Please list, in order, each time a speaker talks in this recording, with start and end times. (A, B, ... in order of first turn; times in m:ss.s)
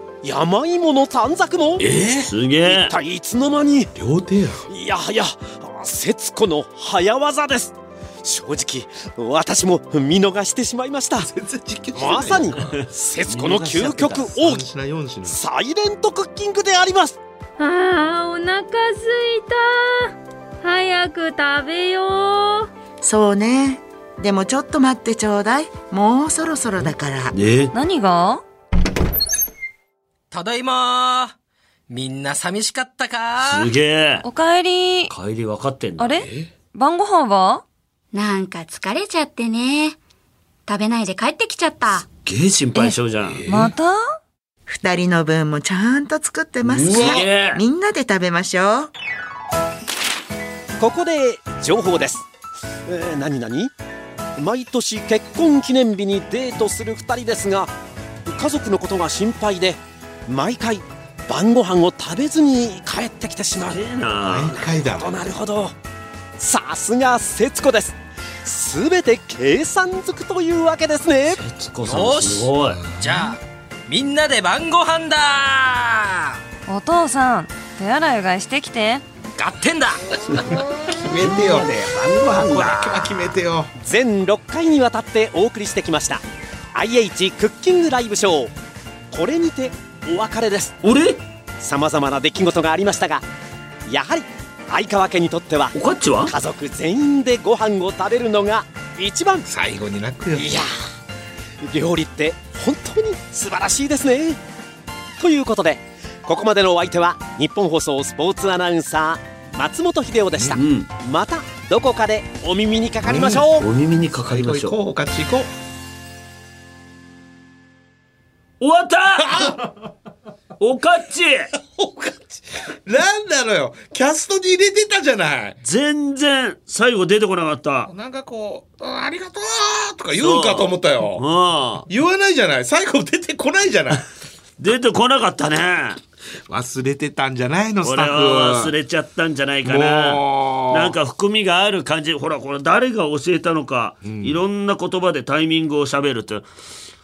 0:00.2-0:01.8 A
0:01.8-0:02.3 B
0:01.9-0:02.9 C
0:02.6-0:03.9 A
0:03.9-0:04.6 B
0:04.7-0:11.3 A
0:11.2-0:12.8 B
0:11.9-0:14.6 A
0:13.3-0:13.8 C
0:13.4-0:15.4 B
0:15.2-0:17.2 A
0:17.6-0:22.7 D
0:23.0-0:27.3 E
0:27.3-0:27.7 C
0:27.7-0:28.4 F
0:30.3-0:31.3 G
0:31.9-0:33.7 G
0:33.4-0:34.2 C
0:34.2-0:35.1 F
0:35.1-0:36.2 C
0:36.0-0:37.6 F
0:36.2-0:36.5 B
0:38.1-0:40.0 H
0:40.7-0:42.0 H
0:42.2-0:43.4 C
0:43.2-0:43.7 B
0:43.4-0:44.0 F
0:44.7-0:48.9 E
0:46.6-0:47.6 C
0:46.8-0:47.2 B
0:50.8-0:52.2 A
0:52.8-0:53.7 A
0:54.4-0:57.7 A
0:58.2-1:03.8 A
1:03.7-1:04.6 C
1:04.2-1:05.1 B
1:04.8-1:05.7 A
1:06.4-1:11.4 A
1:11.3-1:12.8 C
1:11.8-1:16.4 G
1:12.7-1:13.3 B
1:16.7-1:19.0 F
1:19.4-1:20.2 G
1:20.3-1:23.1 C
1:20.9-1:23.7 B
1:23.8-1:26.2 A
1:26.7-1:28.5 A
1:29.1-1:30.8 A
1:30.8-1:31.2 C
1:31.6-1:33.2 A
1:33.9-1:39.5 A
1:35.7-1:36.3 C
1:39.4-1:40.5 B
1:40.3-1:40.7 A
1:41.6-1:44.4 A
1:45.2-1:53.7 A
1:50.6-1:50.9 C
1:53.0-1:53.4 B
1:53.6-1:54.8 C
1:54.2-1:55.5 B
1:58.6-1:59.6 C
1:59.2-1:59.6 B
2:00.6-2:01.5 C
2:01.6-2:05.6 B
2:05.6-2:07.9 C
2:07.8-2:11.2 B
2:10.2-2:11.9 C
2:11.9-2:14.0 B
2:14.6-2:16.0 C
2:16.5-2:18.7 B
2:17.8-2:26.4 C
2:19.6-2:21.0 B
2:24.0-2:24.4 B